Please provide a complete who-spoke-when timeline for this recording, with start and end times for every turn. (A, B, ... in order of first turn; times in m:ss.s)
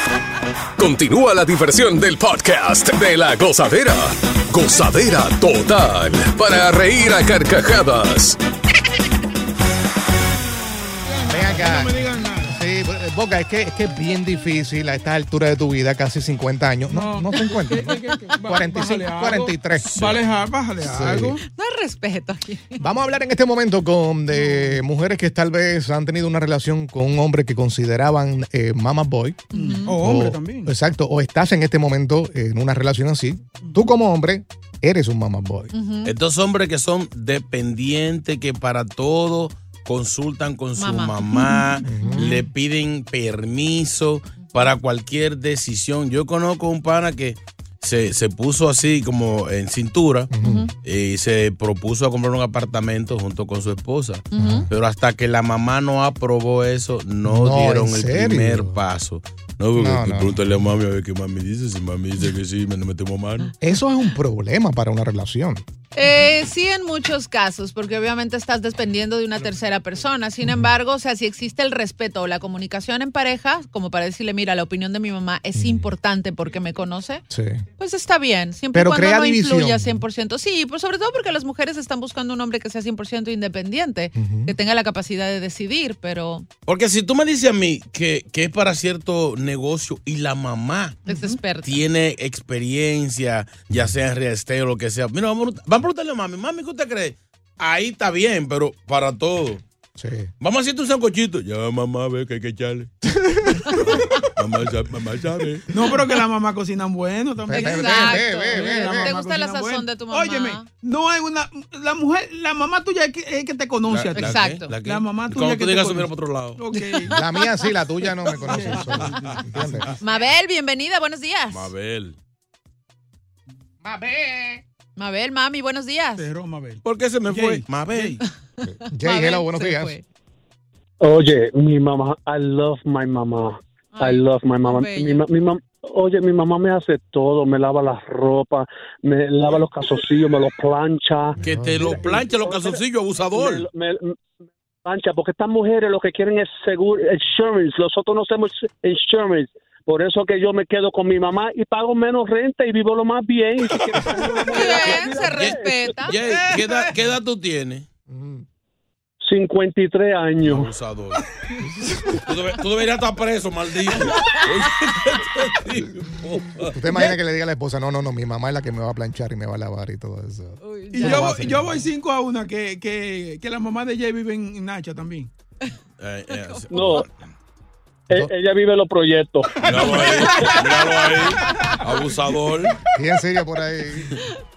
0:00.8-0:08.4 A
0:11.0-0:12.6 B
0:11.3-0:19.9 C
0:16.9-0:21.4 B
0:19.8-0:20.2 D
0:20.8-0:21.4 C
0:21.5-0:22.8 E
0:22.8-0:35.7 C
0:29.5-0:30.0 E
0:29.5-0:30.7 B
0:35.7-0:36.1 E
0:36.0-0:50.3 D
0:40.8-0:42.3 E
0:41.8-0:42.4 C
0:44.4-0:44.7 E
0:50.3-0:50.7 C
0:50.4-0:50.7 E
0:50.8-1:03.5 D
0:54.3-0:54.7 E
0:54.4-0:54.7 C
0:57.2-0:58.8 C
0:59.8-1:00.4 C
1:03.6-1:05.6 C
1:05.9-1:17.2 E
1:15.6-1:15.9 C
1:17.3-1:17.6 C
1:17.8-1:26.5 E
1:18.7-1:20.0 C
1:24.2-1:24.5 C
1:26.7-1:31.0 D
1:31.1-1:31.8 E
1:31.6-1:39.6 D
1:40.0-1:40.3 C
1:40.4-1:42.9 D
1:43.1-1:43.8 C
1:43.8-1:45.7 D
1:45.7-1:57.2 B
1:47.4-1:49.1 C
1:47.5-1:50.7 E
1:53.9-1:56.6 D
1:54.2-1:54.7 E
1:56.7-1:57.2 E
1:57.1-1:59.9 C
1:58.3-1:59.9 B
1:59.4-1:59.9 D
2:00.0-2:01.7 E
2:01.5-2:02.2 D
2:03.8-2:04.6 C
2:05.0-2:06.3 E
2:06.2-2:08.2 B
2:06.8-2:08.2 D
2:08.6-2:10.0 E
2:08.6-2:10.0 C
2:11.0-2:24.2 F
2:13.9-2:15.2 E
2:21.4-2:22.1 C
2:21.4-2:23.7 D
2:24.8-2:36.0 F
2:34.5-2:36.2 E
2:35.3-2:37.9 D
2:38.1-2:38.5 C
2:39.2-2:40.7 F
2:40.4-2:41.3 D
2:41.6-2:42.2 C
2:42.2-2:46.8 D
2:46.7-2:51.8 C
2:46.9-2:47.2 B
2:50.6-2:51.4 E
2:50.9-2:55.3 B
2:56.0-2:57.1 D
2:56.3-2:57.0 E
2:56.7-2:57.1 F
2:58.1-3:00.6 F
2:59.6-3:01.9 B
2:59.6-3:02.8 D
3:01.5-3:01.8 E
3:02.9-3:04.2 C